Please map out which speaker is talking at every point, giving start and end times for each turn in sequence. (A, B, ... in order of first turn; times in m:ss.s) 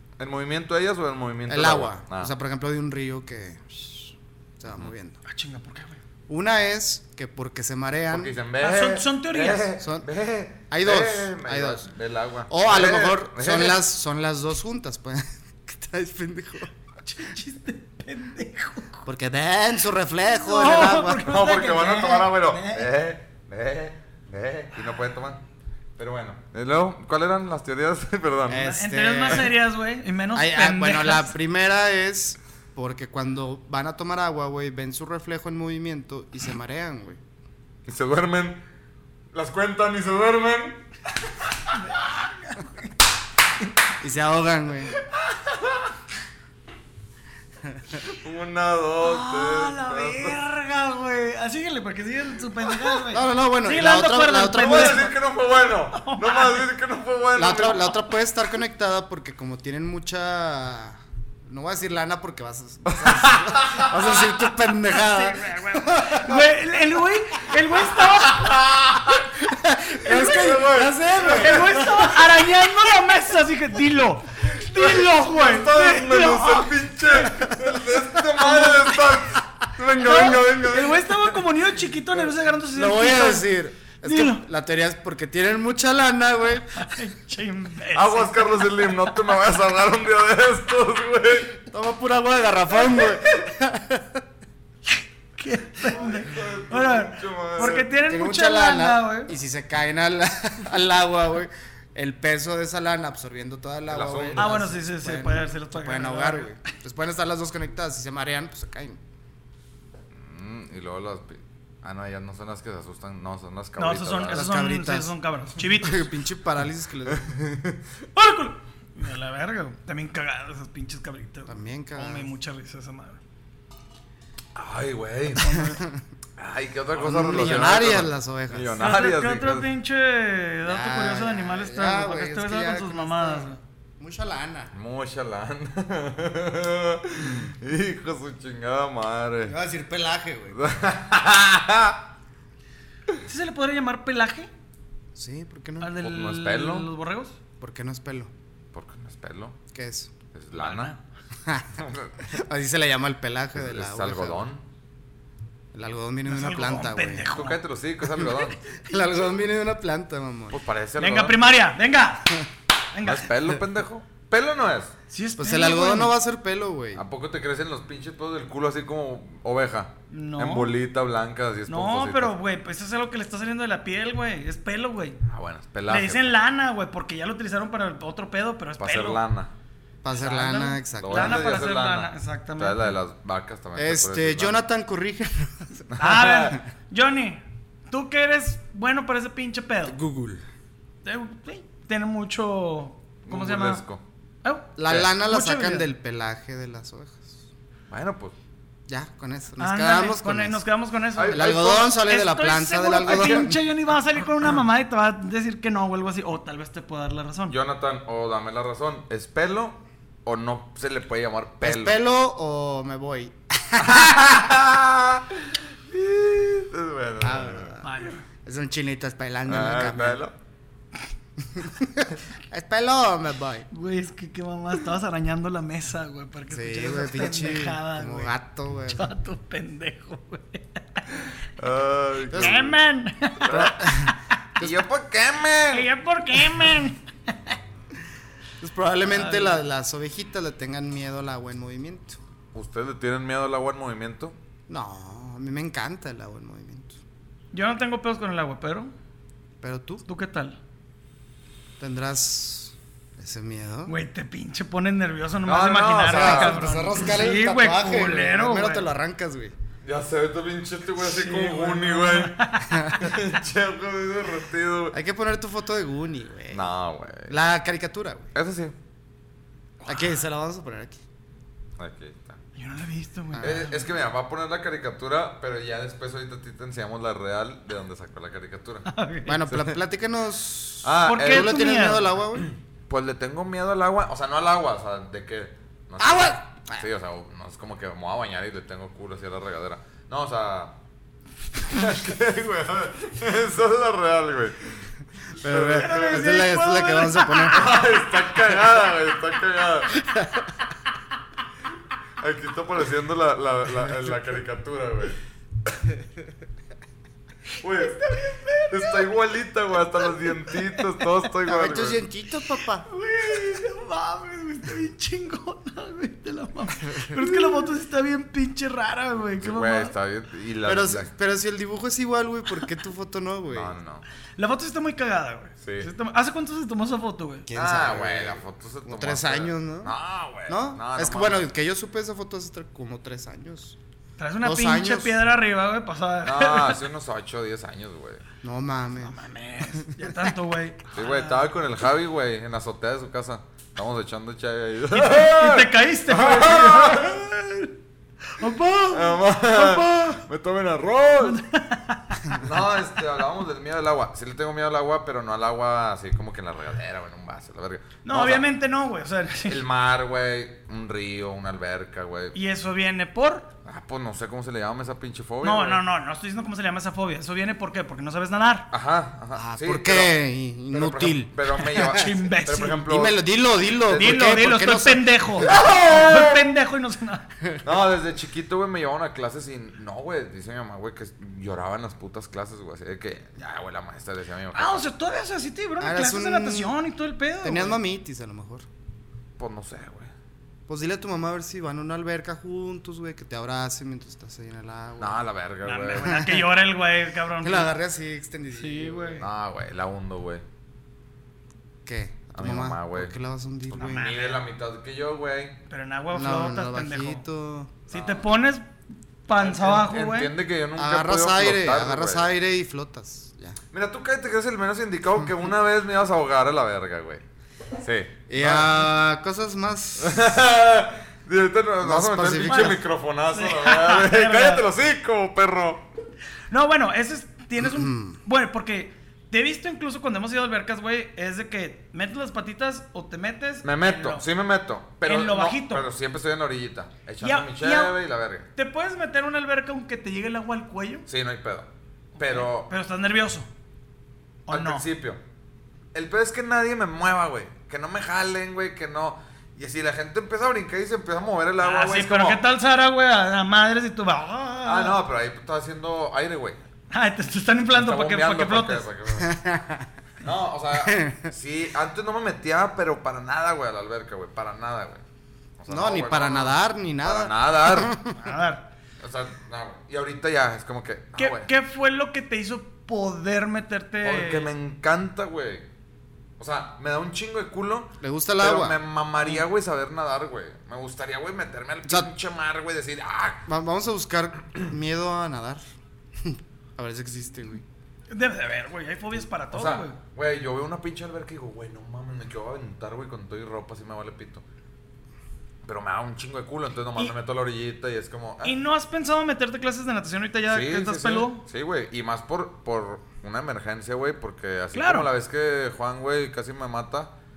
0:00.2-0:02.3 A
0:01.5-0:05.2 B
0:05.2-0:06.0 C
0:06.3-0:08.3 B
0:08.1-0:13.8 A
0:08.6-0:09.7 C
0:09.8-0:10.1 B
0:10.7-0:11.8 B
0:12.5-0:16.7 B
0:17.0-0:19.0 C
0:19.0-0:21.3 B
0:20.3-0:22.9 C
0:21.2-0:25.4 A
0:26.0-0:28.6 A
0:28.5-0:29.5 B
0:28.6-0:31.3 C
0:30.3-0:37.2 B
0:37.9-0:38.6 A
0:39.3-0:40.8 A
0:41.7-0:42.9 C
0:44.0-0:44.9 B
0:47.7-0:48.0 B
0:48.0-0:50.4 A
0:49.0-0:55.1 C
0:53.1-0:55.1 B
0:54.5-0:58.0 A
0:55.9-0:56.6 C
0:57.4-1:06.4 B
1:02.9-1:04.2 A
1:04.8-1:08.6 C
1:08.0-1:09.3 A
1:09.4-1:12.1 B
1:10.0-1:12.1 A
1:10.0-1:17.3 C
1:14.4-1:21.2 A
1:18.4-1:19.1 C
1:20.0-1:23.5 C
1:22.7-1:26.9 B
1:24.0-1:24.4 C
1:26.7-1:29.1 C
1:27.9-1:31.6 A
1:31.7-1:34.2 B
1:34.9-1:39.3 C
1:35.9-1:37.9 A
1:38.0-1:49.0 B
1:43.9-1:44.6 A
1:44.4-1:46.7 C
1:50.1-1:54.4 A
1:53.8-1:56.1 C
1:54.3-1:55.1 B
1:55.7-1:57.3 B
1:57.1-1:57.8 A
1:58.1-2:03.2 C
2:01.5-2:02.3 B
2:04.6-2:05.5 A
2:05.4-2:05.8 C
2:05.5-2:06.0 B
2:06.4-2:09.7 A
2:07.0-2:08.8 B
2:08.8-2:13.6 C
2:10.6-2:14.7 B
2:14.7-2:19.5 A
2:19.4-2:20.6 B
2:20.5-2:22.0 A
2:23.2-2:24.5 C
2:25.1-2:25.9 B
2:25.8-2:27.4 C
2:26.0-2:26.9 A
2:27.6-2:28.3 B
2:28.7-2:29.6 A
2:29.7-2:30.1 B
2:30.3-2:30.9 A
2:30.5-2:31.0 C
2:31.4-2:34.4 B
2:31.8-2:32.2 A
2:33.6-2:34.6 A
2:35.7-2:37.3 B
2:36.3-2:37.6 C
2:37.3-2:38.6 A
2:38.0-2:40.6 B
2:40.5-2:41.4 A
2:41.0-2:42.4 C
2:42.9-2:43.3 C
2:43.0-2:44.9 A
2:45.1-2:46.2 C
2:45.4-2:47.0 B
2:46.9-2:52.3 A
2:50.1-2:50.7 C
2:51.7-2:55.2 C
2:55.3-2:56.3 A
2:55.9-2:59.2 C
2:58.8-2:59.5 A
3:00.0-3:01.6 B
3:00.1-3:02.8 C
3:01.0-3:04.6 A
3:03.7-3:05.8 B
3:05.9-3:06.6 A
3:06.0-3:10.0 C
3:09.8-3:10.4 B
3:11.0-3:13.8 C
3:13.2-3:14.0 A
3:14.4-3:15.9 C
3:14.8-3:17.4 B
3:17.9-3:18.3 A
3:18.9-3:20.6 B
3:19.6-3:27.6 C
3:21.2-3:21.9 A
3:21.3-3:23.6 B
3:23.0-3:23.5 A
3:27.5-3:32.0 A
3:31.6-3:34.4 B
3:33.8-3:37.8 A
3:37.2-3:37.9 B
3:37.8-3:38.2 C
3:38.4-3:40.2 B
3:39.5-3:40.3 A
3:41.4-3:43.7 B
3:43.7-3:48.3 C
3:46.5-3:49.1 B
3:48.9-3:51.0 C
3:51.6-3:52.8 A
3:52.3-3:52.7 B
3:52.3-3:54.4 C
3:53.4-3:53.8 A
3:53.5-3:54.8 B
3:54.6-3:55.9 A
3:55.7-3:57.6 C
3:58.6-4:02.2 B
3:59.1-3:59.6 C
4:02.5-4:04.3 A
4:04.7-4:07.0 B
4:07.5-4:08.9 C
4:09.6-4:10.0 B
4:10.0-4:10.6 C
4:11.8-4:13.9 B
4:13.8-4:18.9 C
4:15.4-4:16.7 A
4:16.1-4:19.5 B
4:19.8-4:25.0 A
4:21.0-4:23.2 C
4:22.7-4:23.1 B
4:24.9-4:26.7 B
4:26.5-4:27.4 A
4:27.3-4:28.3 B
4:28.3-4:28.7 A
4:29.8-4:30.2 C
4:29.8-4:31.0 B
4:31.8-4:32.4 A
4:32.6-4:33.9 C
4:33.3-4:33.6 B
4:33.4-4:38.8 A
4:38.8-4:39.5 C
4:39.2-4:42.5 B
4:39.5-4:39.8 A
4:40.8-4:41.6 A
4:41.0-4:42.1 C
4:42.3-4:50.7 A
4:46.0-4:46.8 B
4:51.6-4:54.9 A
4:55.4-4:56.4 A
4:55.4-4:57.8 B
4:55.7-4:57.8 C
4:57.5-5:00.0 A
5:00.0-5:00.5 B
5:02.2-5:05.2 A
5:07.6-5:09.1 C
5:07.6-5:12.0 A
5:10.5-5:10.8 C
5:11.4-5:12.8 B
5:12.8-5:19.9 C
5:19.4-5:21.1 A
5:20.6-5:23.8 B
5:23.5-5:24.0 A
5:24.4-5:27.5 C
5:25.6-5:25.9 A
5:27.5-5:29.9 B
5:27.5-5:31.5 A
5:30.5-5:33.8 B
5:34.2-5:36.8 C
5:34.4-5:35.1 B
5:36.2-5:38.2 A
5:38.4-5:39.2 B
5:39.0-5:41.5 C
5:39.7-5:40.2 B
5:40.9-5:47.3 A
5:44.9-5:47.7 C
5:48.3-5:50.2 C
5:48.9-5:51.4 A
5:51.2-5:52.5 C
5:52.3-5:58.4 A
5:58.0-5:59.6 C
5:59.5-6:02.4 A
6:02.3-6:03.5 C
6:03.6-6:05.8 A
6:05.4-6:08.7 C
6:08.7-6:10.1 A
6:09.4-6:12.1 B
6:10.7-6:13.2 A
6:11.7-6:12.8 C
6:12.8-6:15.6 B
6:13.8-6:14.4 A
6:13.9-6:17.3 C
6:15.4-6:16.4 A
6:17.6-6:24.8 A
6:24.5-6:27.8 C
6:25.8-6:26.7 B
6:27.4-6:28.6 B
6:29.4-6:30.1 A
6:30.7-6:35.2 B
6:35.0-6:36.2 A
6:35.6-6:37.7 C
6:36.0-6:36.4 B
6:37.4-6:39.2 B
6:38.5-6:39.3 C
6:39.2-6:40.4 A
6:41.8-6:44.1 B
6:42.3-6:43.1 A
6:43.7-6:45.6 A
6:43.7-6:44.4 C
6:45.7-6:47.2 C
6:46.1-6:47.8 B
6:47.9-6:48.7 C
6:47.9-6:48.2 A
6:49.3-6:50.3 C
6:49.4-6:52.3 A
6:50.8-6:53.6 B
6:53.7-6:57.2 A
6:57.8-6:58.8 A
6:58.3-7:00.3 B
7:00.0-7:05.8 A
7:01.8-7:02.8 B
7:02.4-7:04.6 C
7:06.5-7:14.2 C
7:07.6-7:08.2 B
7:13.6-7:18.5 A
7:15.0-7:15.8 C
7:17.2-7:18.0 C
7:18.6-7:21.1 C
7:21.1-7:21.7 A
7:22.2-7:23.5 C
7:22.2-7:22.7 A
7:24.5-7:24.8 C
7:24.5-7:25.2 A
7:25.9-7:32.4 A
7:31.6-7:35.0 C
7:34.6-7:36.6 A
7:36.9-7:38.8 C
7:37.7-7:39.4 A
7:39.2-7:39.9 B
7:40.2-7:45.0 A
7:40.7-7:41.3 B
7:45.6-7:48.0 A
7:45.7-7:48.1 B
7:48.1-7:48.6 C
7:49.0-7:51.5 A
7:51.2-7:54.5 C
7:54.0-7:55.6 A
7:56.4-8:03.4 A
7:58.0-7:58.8 B
8:03.4-8:05.6 B
8:06.2-8:07.6 B
8:08.1-8:10.0 C
8:09.5-8:14.4 A
8:15.6-8:18.6 A
8:18.4-8:21.4 C
8:20.5-8:27.1 A
8:24.7-8:25.1 C